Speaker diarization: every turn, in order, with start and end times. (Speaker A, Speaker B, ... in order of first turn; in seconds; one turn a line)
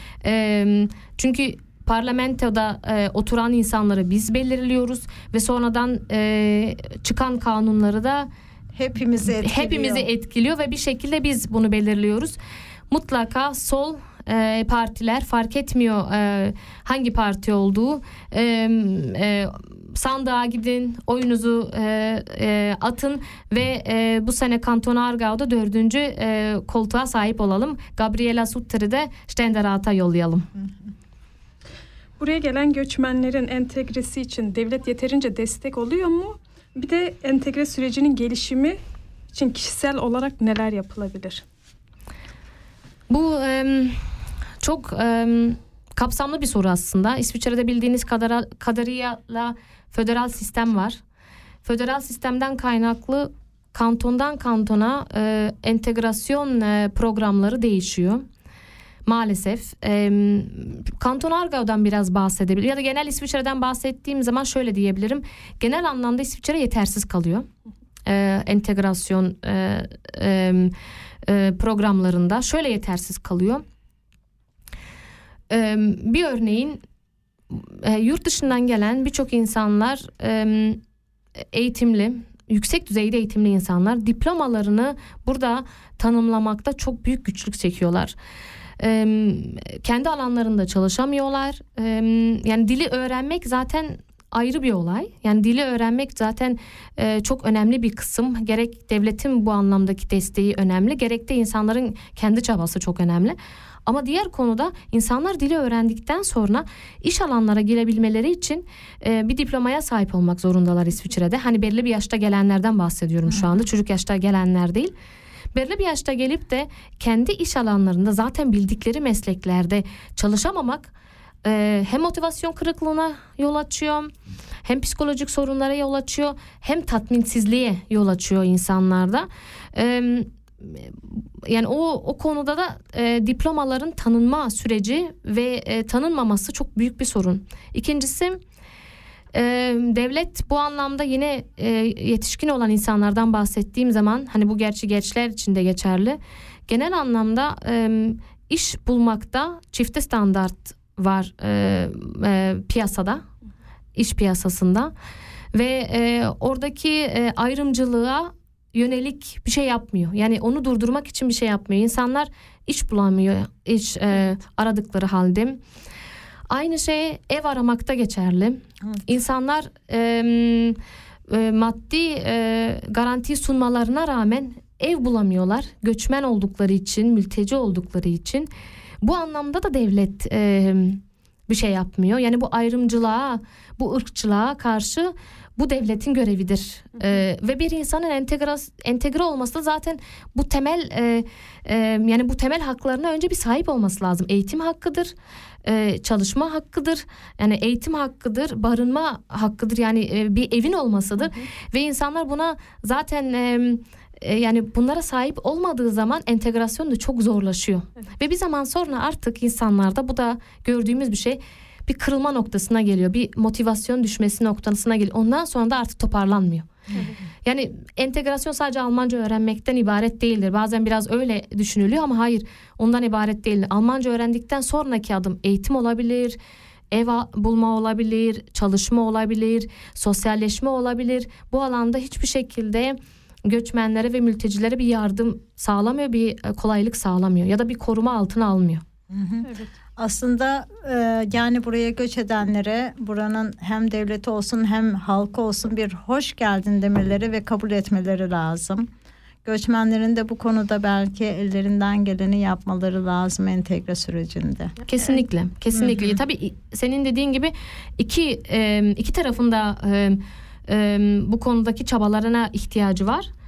Speaker A: 0.2-8.3
Speaker B: 8.8-10.1
Speaker A: 9.4-12.4
Speaker A: 12.9-30.5
Speaker C: 32.2-38.8
Speaker C: 39.3-41.4
Speaker A: 43.1-44.0
Speaker A: 44.6-51.0
Speaker A: 51.6-58.2
Speaker A: 59.0-67.5
Speaker A: 68.0-70.7
Speaker A: 71.2-73.6
Speaker A: 75.5-76.8
Speaker A: 77.5-80.8
Speaker A: 81.5-88.2
Speaker A: 88.8-114.9
Speaker A: 115.5-120.9
Speaker A: 121.4-124.1
Speaker A: 124.6-138.4
Speaker A: 139.3-153.2
Speaker A: 153.9-154.9
Speaker A: 155.5-165.6
Speaker A: 166.5-170.8
Speaker A: 171.3-178.5
Speaker A: 179.0-195.1
Speaker A: 195.6-216.8
Speaker A: 217.4-226.4
Speaker A: 226.9-238.8
Speaker B: 239.1-239.4
Speaker C: 239.4-239.7
Speaker B: 240.0-248.9
Speaker B: 249.4-254.8
Speaker A: 254.9-263.3
Speaker B: 255.8-256.2